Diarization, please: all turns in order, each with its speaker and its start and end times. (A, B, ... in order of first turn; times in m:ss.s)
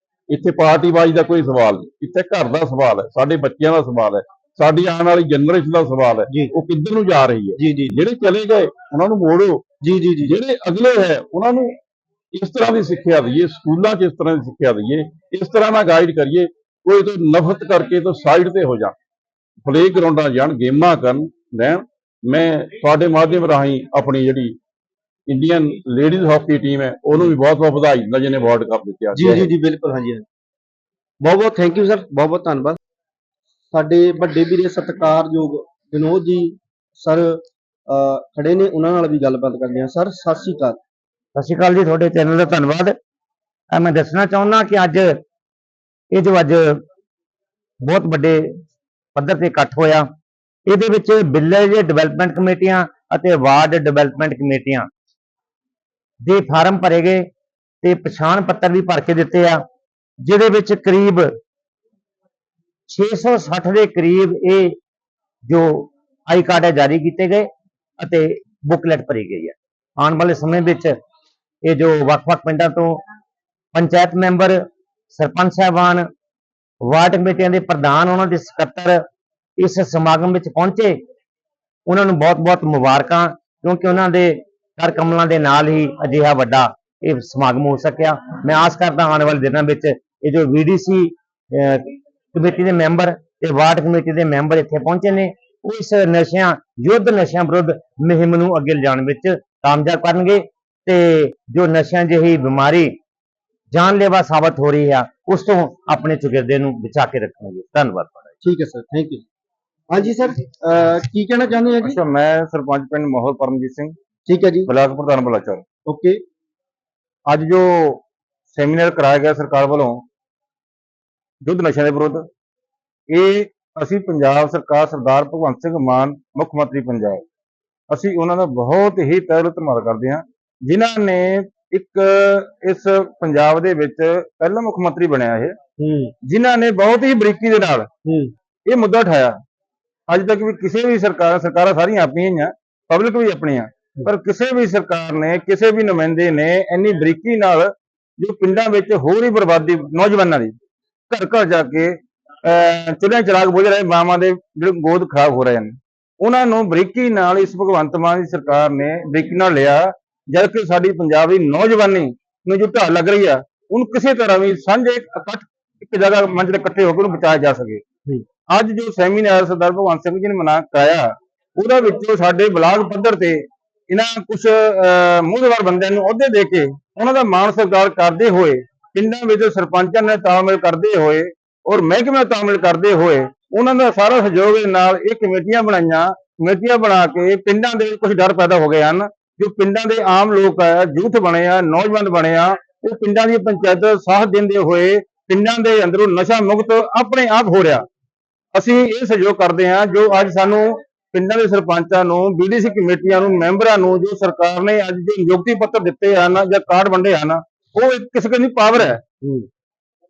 0:00.3-0:09.6 A
0:07.6-0:08.0 B
0:09.8-0:10.4 B
0:10.2-0:11.8 A
0:12.3-0:19.0 A
0:19.7-0:24.6 A
0:25.3-0:29.5 A
0:29.2-0:30.3 B
0:31.2-0:32.8 B
0:33.7-0:40.8 B
0:41.4-0:43.0 C
0:43.7-0:45.2 C
0:46.1-0:46.8 C
0:47.8-0:48.4 C
0:49.2-0:50.1 C
0:50.7-0:54.9 C
0:56.2-0:57.3 C
0:57.8-0:59.6 C
1:00.2-1:01.3 C
1:02.9-1:04.8 C
1:05.5-1:07.5 C
1:08.0-1:11.0 C
1:11.6-1:13.0 C
1:13.7-1:14.6 C
1:15.1-1:16.1 C
1:16.8-1:19.0 C
1:19.6-1:21.0 C
1:21.9-1:42.9 C
1:43.7-1:48.2 C
1:48.4-1:49.2 B
1:49.9-1:52.0 B
1:51.8-1:54.0 D
1:54.3-1:54.7 B
1:54.7-1:55.6 D
1:55.9-1:56.2 B
1:57.3-1:58.0 D
1:58.5-2:00.0 D
2:01.4-2:02.3 D
2:03.1-2:07.2 D
2:07.9-2:15.6 D
2:15.8-2:16.1 B
2:16.2-2:17.9 D
2:18.0-2:18.3 B
2:18.7-2:19.4 D
2:20.1-2:30.6 D
2:31.1-2:47.8 D
2:48.5-3:17.9 D
3:18.5-3:29.0 D